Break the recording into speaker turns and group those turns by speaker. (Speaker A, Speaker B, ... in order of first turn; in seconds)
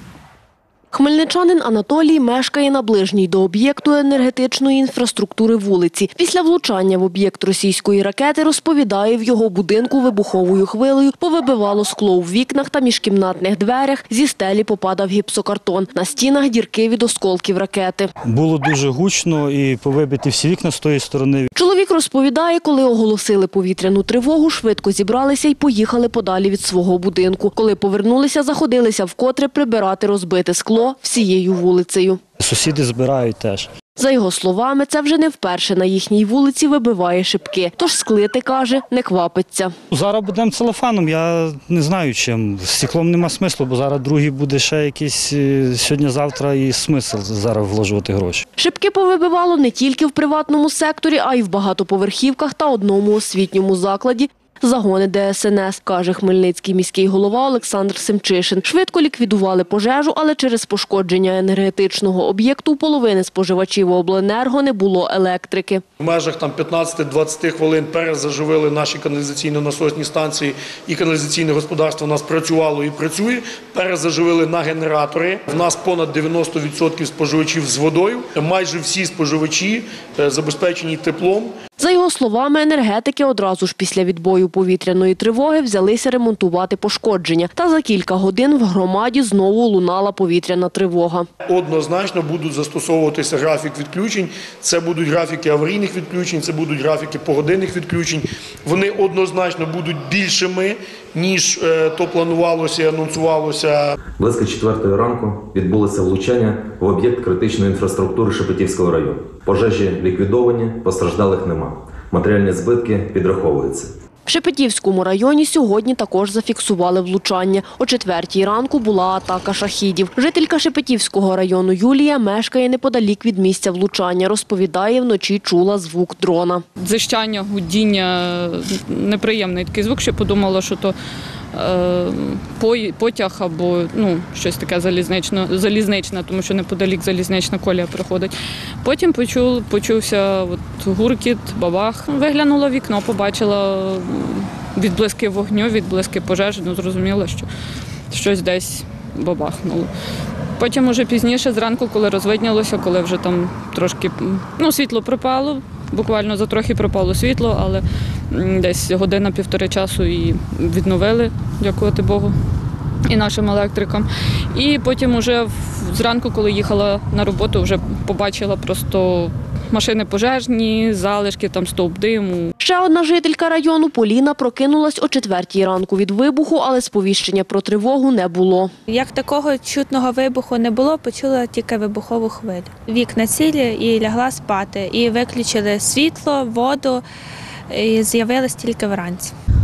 Speaker A: 0.9-18.1, 21.6-32.2, 34.0-39.7, 48.6-65.8, 81.8-91.3, 114.3-126.6, 172.6-178.7
Speaker B: 18.2-21.5, 32.4-33.7, 39.9-48.5
Speaker C: 66.0-81.5, 91.5-104.0
Speaker D: 104.2-113.9
Speaker E: 126.8-130.9, 131.5-138.3, 138.8-147.5, 148.1-149.9, 150.6-162.3, 163.1-172.5
Speaker F: 178.9-187.0, 187.7-189.3